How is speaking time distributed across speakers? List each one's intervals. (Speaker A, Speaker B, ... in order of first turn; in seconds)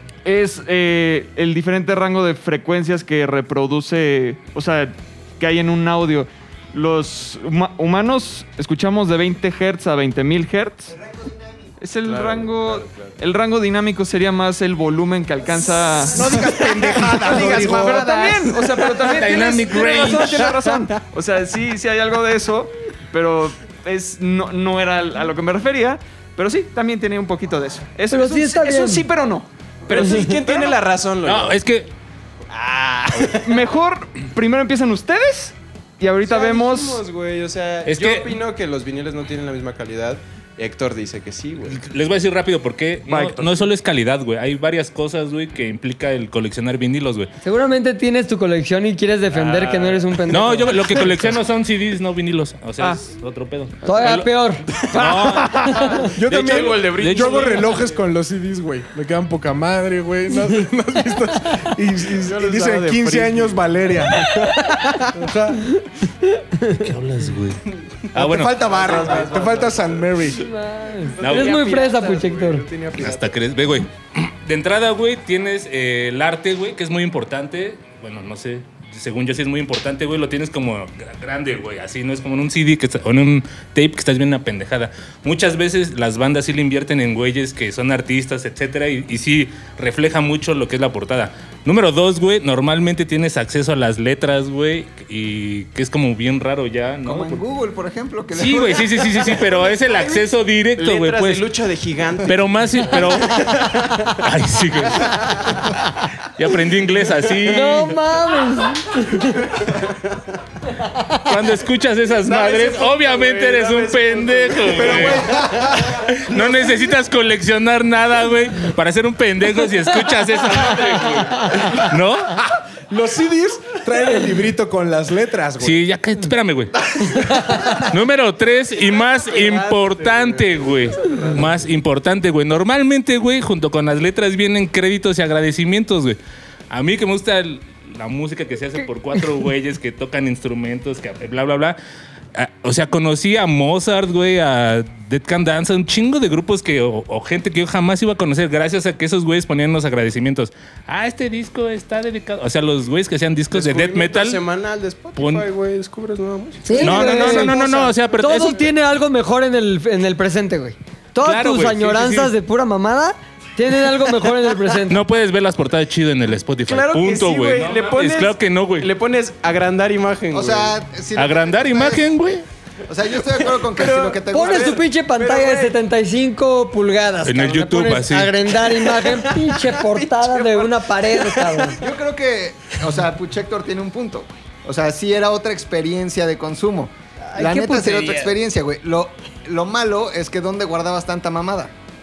Speaker A: 0.2-10.9, 11.8-30.8, 33.2-37.0, 43.1-43.7, 54.9-55.7
Speaker B: 12.0-13.1, 17.6-18.1, 29.9-31.6, 32.5-33.4, 36.2-41.8, 49.3-50.0, 55.8-58.0, 62.1-63.7, 68.4-70.3, 71.1-73.4, 99.4-100.2, 100.8-104.0, 112.2-116.0, 121.0-121.3, 128.8-131.7, 153.5-158.6, 166.7-170.8, 173.6-175.8, 179.8-181.7
Speaker C: 16.1-18.4, 56.1-64.5, 65.1-65.7, 68.2-70.5, 114.9-115.7, 122.9-125.8
Speaker D: 17.1-18.4, 97.0-99.4, 170.3-172.1, 172.9-174.8, 181.8-191.7
Speaker E: 19.1-20.5, 31.2-31.9, 37.9-38.4, 41.7-47.3, 50.3-57.6, 66.8-68.6, 71.2-71.6, 73.0-97.5, 98.3-101.5, 102.2-105.8, 106.4-108.0, 111.2-122.5, 125.6-136.2, 136.7-141.8, 142.3-154.4, 155.2-155.4, 156.8-158.7, 161.2-162.3, 164.9-168.9, 171.1-172.4, 177.3-178.5
Speaker F: 28.1-29.1, 47.4-51.1, 53.9-54.7, 55.7-56.0, 65.8-66.8, 70.3-72.6, 107.5-109.5, 156.6-157.6, 158.2-165.0, 174.3-181.8, 187.3-188.3